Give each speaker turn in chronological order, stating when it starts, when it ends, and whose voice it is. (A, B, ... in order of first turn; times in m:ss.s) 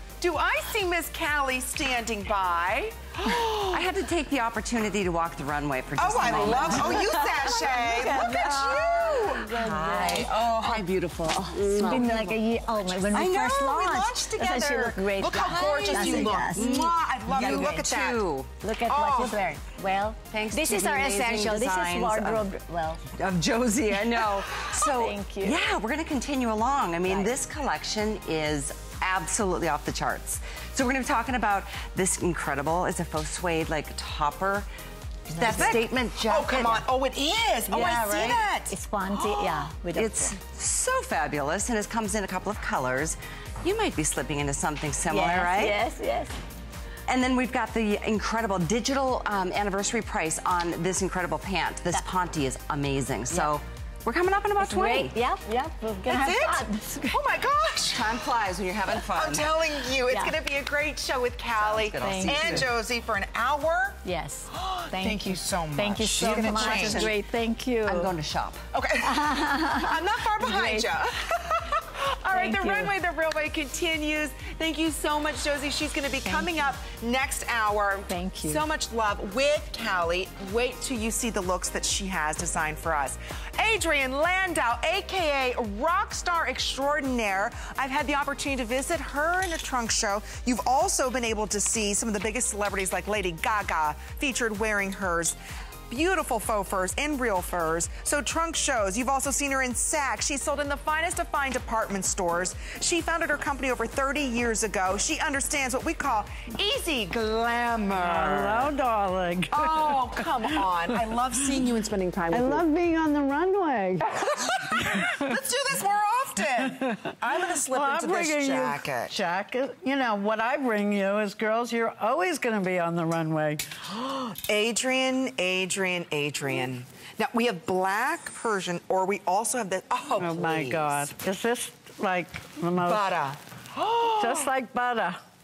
0:00.2-0:03.9 A
0:03.7-0:12.4 B
0:06.0-0:09.6 A
0:06.2-0:10.8 C
0:11.5-0:16.7 C
0:13.0-0:14.1 B
0:13.1-0:18.2 A
0:15.3-0:18.5 B
0:18.6-0:23.0 C
0:18.8-0:19.4 A
0:20.3-0:22.5 B
0:23.1-0:34.6 B
0:23.9-0:25.7 C
0:35.3-0:36.9 B
0:35.4-0:35.8 C
0:35.4-0:38.7 A
0:37.7-0:38.4 B
0:37.7-0:40.4 C
0:39.2-0:45.8 B
0:45.0-0:46.4 C
0:47.1-0:55.2 B
0:54.6-0:57.2 C
0:56.0-0:58.3 A
0:57.9-0:59.6 B
0:59.1-1:04.0 A
1:00.0-1:00.4 C
1:01.6-1:02.7 B
1:02.0-1:02.7 C
1:04.0-1:08.2 C
1:04.5-1:07.1 A
1:06.1-1:07.2 B
1:07.8-1:08.6 B
1:08.7-1:35.4 A
1:09.0-1:10.9 C
1:12.3-1:12.9 C
1:16.2-1:16.7 C
1:18.1-1:18.6 C
1:35.9-1:48.7 A
1:48.0-1:50.7 D
1:49.5-1:52.6 A
1:51.3-1:51.6 D
1:52.3-1:55.2 D
1:54.1-1:59.1 A
1:56.8-2:03.6 D
2:04.3-2:11.1 A
2:10.2-2:13.1 D
2:12.8-2:14.5 A
2:14.1-2:15.2 D